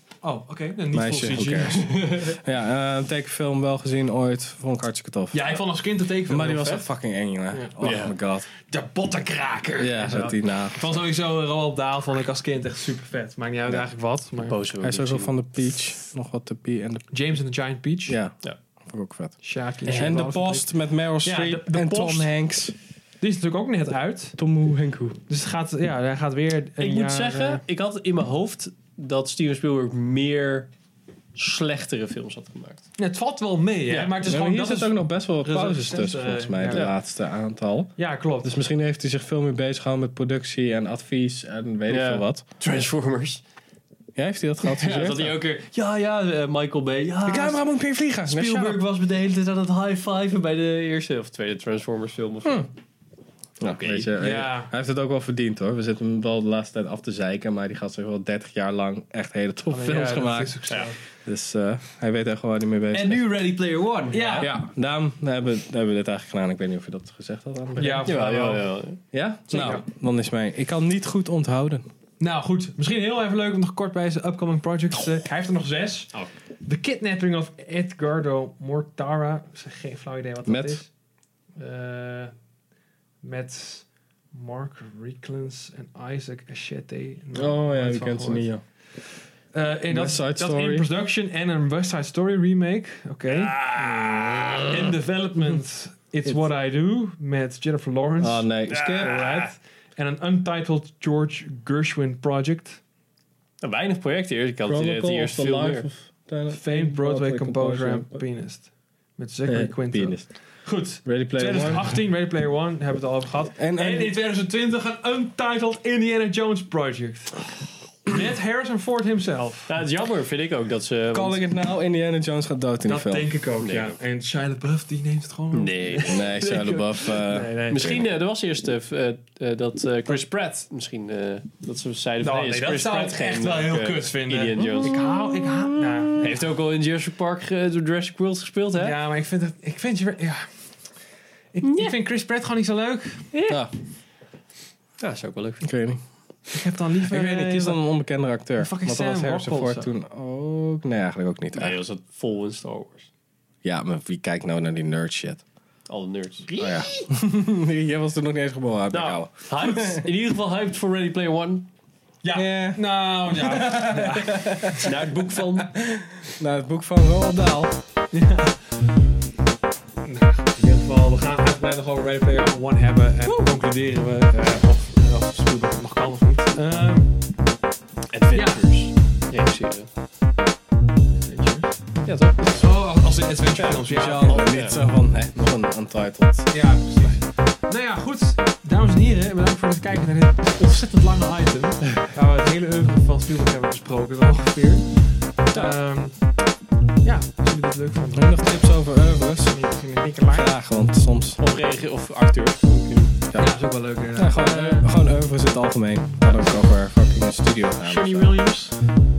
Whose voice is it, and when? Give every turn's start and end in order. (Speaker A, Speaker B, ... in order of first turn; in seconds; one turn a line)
Speaker A: 0.2-1.9
Speaker B: 0.9-5.6
Speaker C: 1.8-2.3
Speaker A: 5.3-6.9
Speaker B: 6.3-8.5
Speaker A: 7.5-8.0
Speaker C: 7.8-8.1
Speaker A: 8.7-14.6
Speaker B: 9.8-11.0
Speaker C: 14.4-15.3
Speaker B: 14.8-17.1
Speaker A: 17.1-18.2
Speaker B: 18.1-18.4
Speaker B: 18.9-19.4
Speaker A: 19.4-20.7
Speaker C: 19.9-20.2
Speaker B: 19.9-22.7
Speaker A: 21.2-22.3
Speaker A: 23.2-24.4
Speaker B: 24.4-25.2
Speaker A: 25.3-27.6
Speaker C: 26.8-30.7
Speaker C: 31.4-32.9
Speaker A: 33.0-36.9
Speaker C: 33.9-34.1
Speaker B: 34.3-37.9
Speaker A: 38.0-38.6
Speaker B: 38.4-42.4
Speaker C: 41.9-43.4
Speaker B: 44.2-45.4
Speaker C: 44.6-47.6
Speaker B: 47.2-48.8
Speaker C: 48.2-52.7
Speaker B: 53.6-60.6
Speaker C: 53.6-54.1
Speaker A: 54.2-54.7
Speaker A: 59.7-61.0
Speaker B: 61.2-63.4
Speaker C: 62.9-64.5
Speaker A: 64.1-64.5
Speaker B: 64.4-68.1
Speaker A: 67.8-68.7
Speaker C: 68.1-69.0
Speaker B: 69.1-71.9
Speaker A: 69.5-69.8
Speaker A: 72.2-80.9
Speaker B: 80.5-80.8
Speaker A: 81.6-82.3
Speaker A: 83.2-88.5
Speaker B: 87.3-88.6
Speaker A: 89.5-94.0
Speaker B: 89.9-90.9
Speaker C: 93.3-94.9
Speaker B: 94.1-94.5
Speaker A: 94.7-102.8
Speaker B: 98.2-99.2
Speaker C: 98.7-99.5
Speaker C: 103.6-105.9
Speaker B: 104.7-108.2
Speaker A: 106.5-117.5
Speaker B: 109.5-110.3
Speaker B: 111.0-111.9
Speaker B: 113.6-114.2
Speaker A: 118.0-119.7
Speaker C: 119.7-121.4
Speaker B: 121.1-123.3
Speaker A: 122.8-126.3
Speaker C: 123.6-124.0
Speaker C: 125.5-135.0
Speaker B: 126.1-128.1
Speaker A: 127.3-128.0
Speaker A: 132.2-136.4
Speaker B: 134.6-136.3
Speaker C: 136.2-139.0
Speaker A: 138.8-140.5
Speaker A: 141.5-143.3
Speaker C: 141.6-141.9
Speaker C: 143.3-143.7
Speaker C: 145.0-145.7
Speaker B: 145.6-146.0
Speaker A: 146.5-147.8
Speaker B: 147.0-151.8
Speaker A: 148.6-149.9
Speaker C: 151.5-153.1
Speaker B: 153.6-155.4
Speaker C: 155.9-156.5
Speaker A: 156.5-157.1
Speaker B: 156.6-160.1
Speaker C: 158.9-161.7
Speaker A: 162.2-164.9
Speaker B: 162.3-167.7
Speaker C: 164.8-165.7
Speaker A: 168.1-168.6
Speaker A: 170.1-177.2
Speaker C: 178.1-179.9
Speaker A: 178.3-178.6
Speaker A: 181.1-181.8
Speaker C: 182.1-182.7
Speaker A: 182.4-184.6
Speaker C: 183.6-184.8
Speaker B: 183.9-186.6
Speaker A: 186.5-196.4
Speaker A: 197.0-198.5
Speaker B: 198.2-199.6
Speaker A: 199.4-200.5
Speaker B: 200.3-201.4
Speaker C: 201.4-203.2
Speaker B: 203.3-203.6
Speaker A: 203.4-204.9
Speaker B: 204.1-208.4
Speaker A: 207.8-208.8